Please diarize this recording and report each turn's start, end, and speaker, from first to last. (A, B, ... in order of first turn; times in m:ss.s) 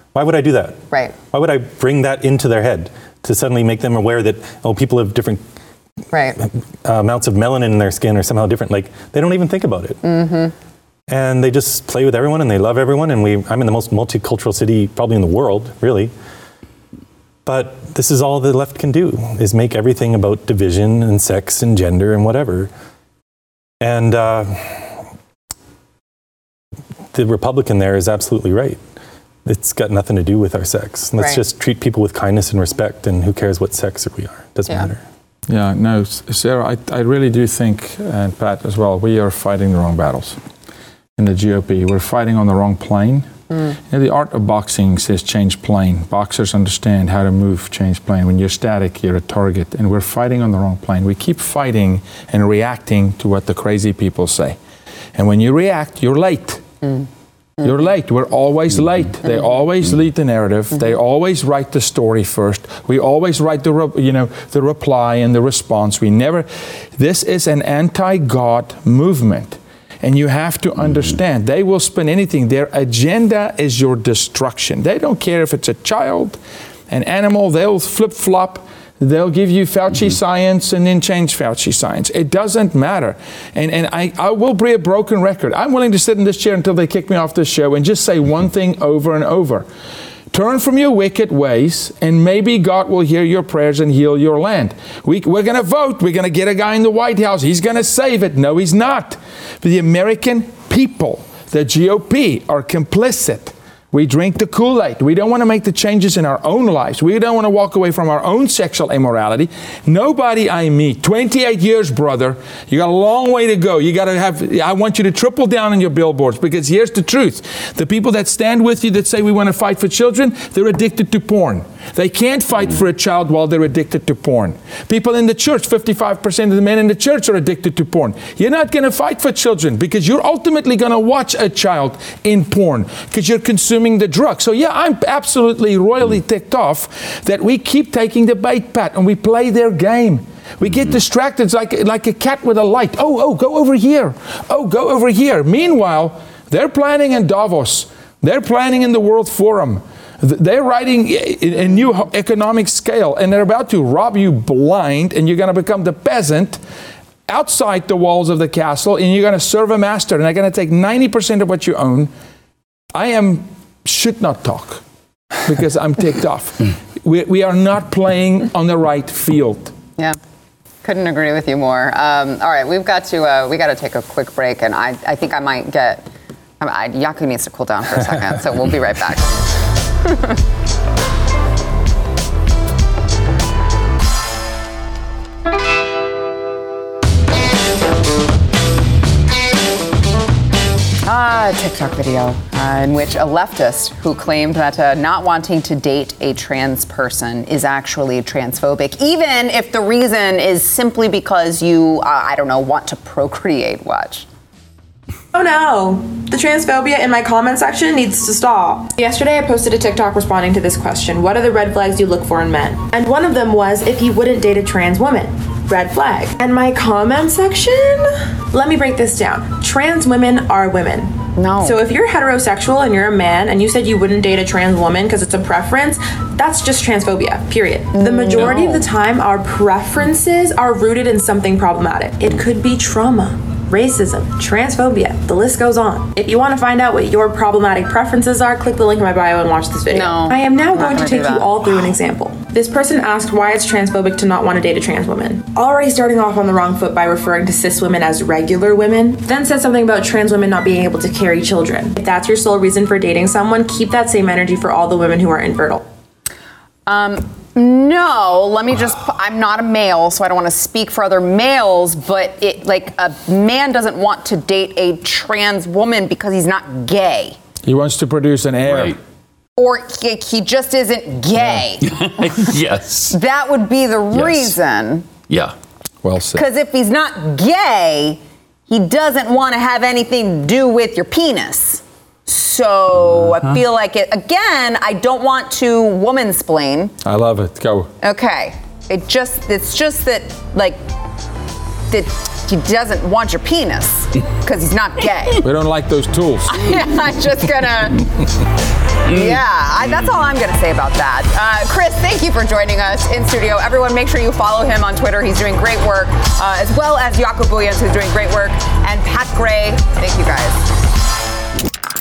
0:00.1-0:05.4 A
0:06.1-0:06.4 B
0:06.4-0:10.0 A
0:10.0-0:10.5 B
0:11.1-0:16.1 A
0:17.5-0:22.7 A
0:23.8-0:25.0 A
0:27.1-0:28.8 A
0:29.4-0:35.0 A
0:35.5-0:40.4 C
0:41.2-0:43.3 C
0:43.9-0:54.6 C
0:55.2-0:56.6 C
0:57.6-1:29.7 C
1:30.3-2:36.6 C
2:37.3-2:42.1 C
2:42.9-2:44.8 C
2:45.4-2:49.7 C
2:50.8-2:56.1 B
2:56.6-3:00.4 B
3:11.0-3:24.3 B
3:25.3-4:15.8 D
3:41.4-3:41.8 B
3:48.0-3:48.9 B
3:59.9-4:01.5 B
4:16.9-4:27.4 B
4:27.6-4:29.0 C
4:28.6-4:29.0 E
4:29.6-4:31.9 B
4:31.8-4:33.2 E
4:33.1-4:35.1 B
4:34.1-4:34.5 E
4:35.3-4:35.5 E
4:36.0-4:36.5 C
4:36.4-4:46.9 B
4:47.0-4:47.9 C
4:48.0-4:50.8 B
4:51.9-4:55.4 B
4:55.4-4:56.7 C
4:56.5-4:58.1 B
4:59.1-5:10.7 B